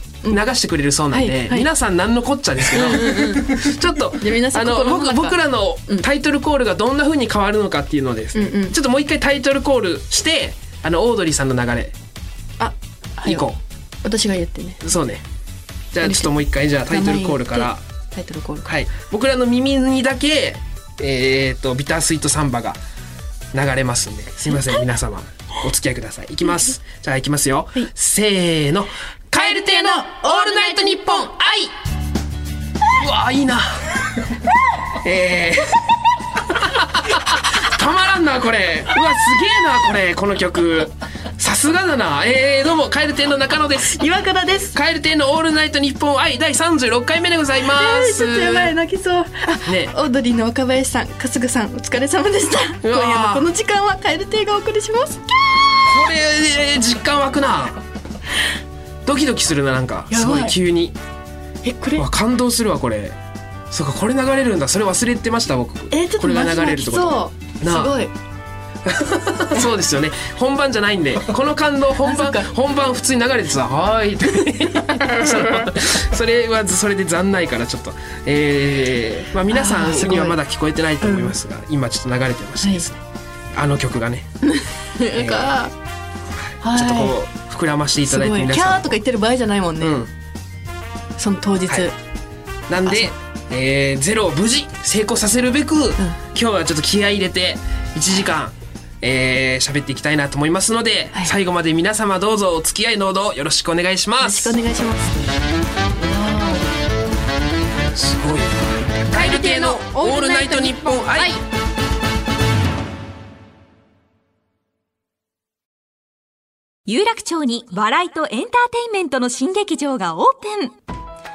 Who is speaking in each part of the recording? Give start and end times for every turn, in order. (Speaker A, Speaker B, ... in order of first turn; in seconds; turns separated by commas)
Speaker A: 0.3-11.9, Speaker B: 1.1-1.7, Speaker B: 2.7-6.1, Speaker B: 8.3-8.8, Speaker B: 12.6-13.5, Speaker A: 13.2-13.6, Speaker B: 14.0-14.8, Speaker A: 14.8-15.2, Speaker A: 15.9-17.8, Speaker B: 16.0-18.7, Speaker A: 18.6-22.8, Speaker A: 23.5-31.7, Speaker B: 29.3-31.3, Speaker A: 32.9-33.9, Speaker A: 34.9-44.0, Speaker B: 43.9-44.8, Speaker A: 44.7-48.7, Speaker B: 47.6-56.0, Speaker A: 49.7-50.0, Speaker A: 52.8-53.5, Speaker A: 55.8-57.8, Speaker A: 59.0-61.0, Speaker B: 60.1-60.6, Speaker B: 61.6-62.0, Speaker A: 62.0-63.2, Speaker A: 63.7-68.0, Speaker B: 65.9-68.1, Speaker A: 68.8-83.0, Speaker B: 72.0-72.5, Speaker B: 74.8-75.7, Speaker B: 79.5-80.4, Speaker B: 81.0-81.3, Speaker B: 82.6-82.9, Speaker A: 83.5-84.3, Speaker B: 84.4-85.7, Speaker A: 85.1-85.5, Speaker A: 86.4-89.0, Speaker B: 86.6-87.2, Speaker B: 88.1-90.0, Speaker A: 89.8-90.1, Speaker B: 91.2-92.0, Speaker A: 92.7-104.5, Speaker B: 92.8-93.1, Speaker B: 104.2-105.4, Speaker B: 105.9-106.7, Speaker A: 107.8-111.4, Speaker B: 109.1-111.4, Speaker C: 116.9-120.8